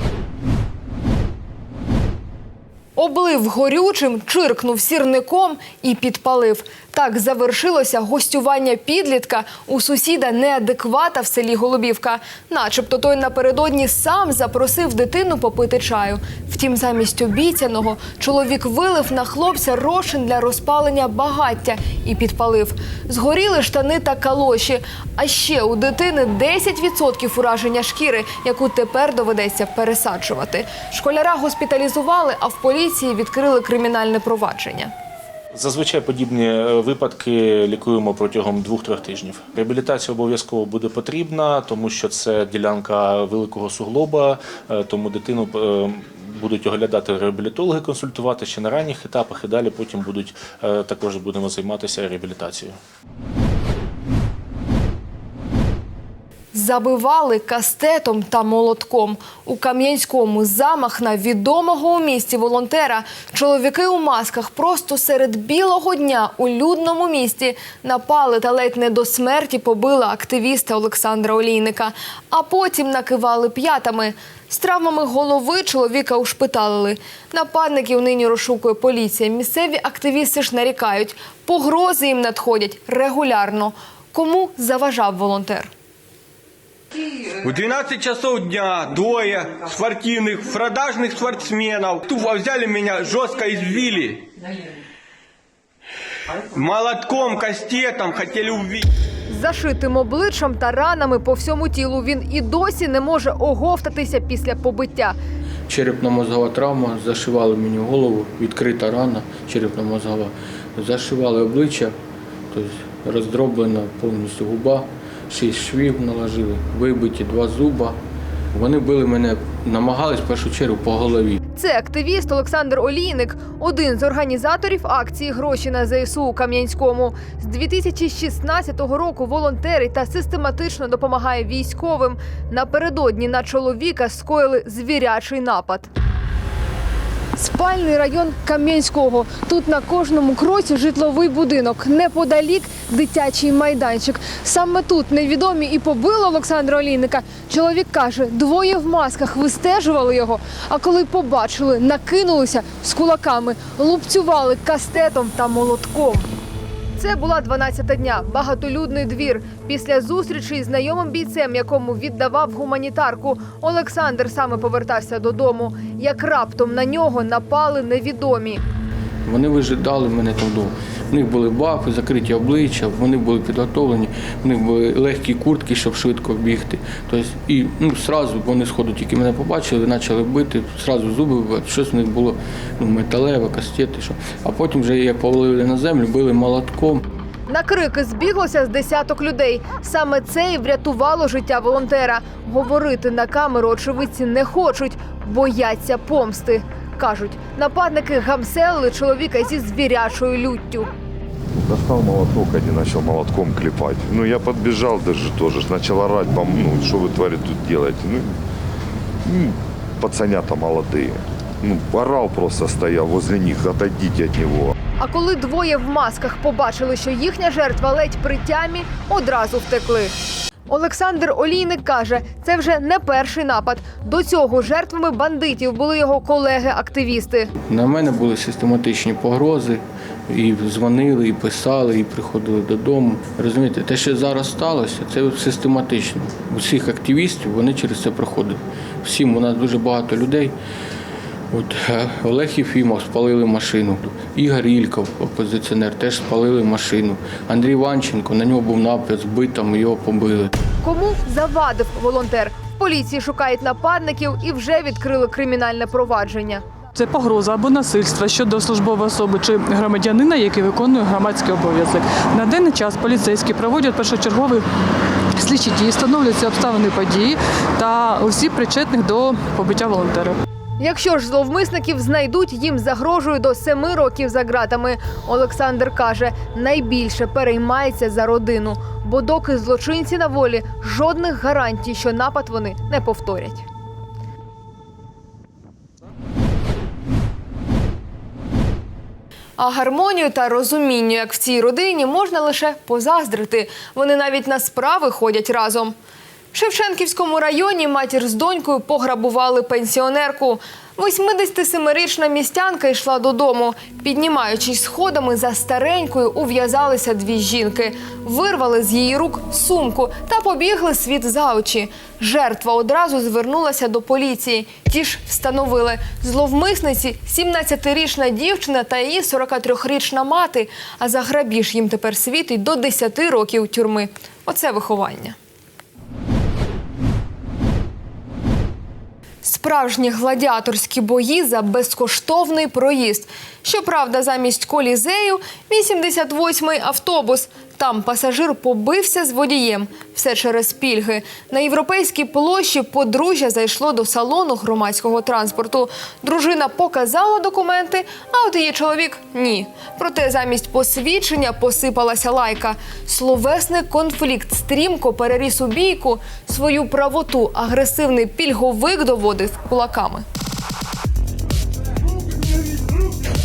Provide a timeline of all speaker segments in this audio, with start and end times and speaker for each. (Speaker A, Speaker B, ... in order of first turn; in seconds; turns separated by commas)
Speaker A: 3.0-34.9, Speaker B: 35.5-52.8, Speaker A: 56.5-85.7, Speaker C: 87.4-94.3, Speaker C: 96.5-98.9, Speaker A: 99.3-105.2, Speaker D: 105.7-111.9, Speaker D: 112.5-118.0, Speaker D: 118.5-121.4, Speaker A: 121.5-135.9, Speaker A: 137.4-156.3, Speaker A: 156.9-168.6, Speaker D: 169.2-187.0, Speaker A: 187.5-200.9, Speaker E: 201.7-208.3, Speaker E: 209.2-214.7, Speaker A: 215.0-220.1, Speaker A: 220.7-227.5, Speaker D: 227.7-240.5, Speaker D: 241.5-250.5, Speaker A: 250.8-256.6, Speaker F: 257.0-264.6, Speaker F: 265.4-270.4, Speaker A: 270.8-283.6, Speaker A: 289.6-295.9, Speaker A: 296.5-325.4, Speaker A: 329.4-360.2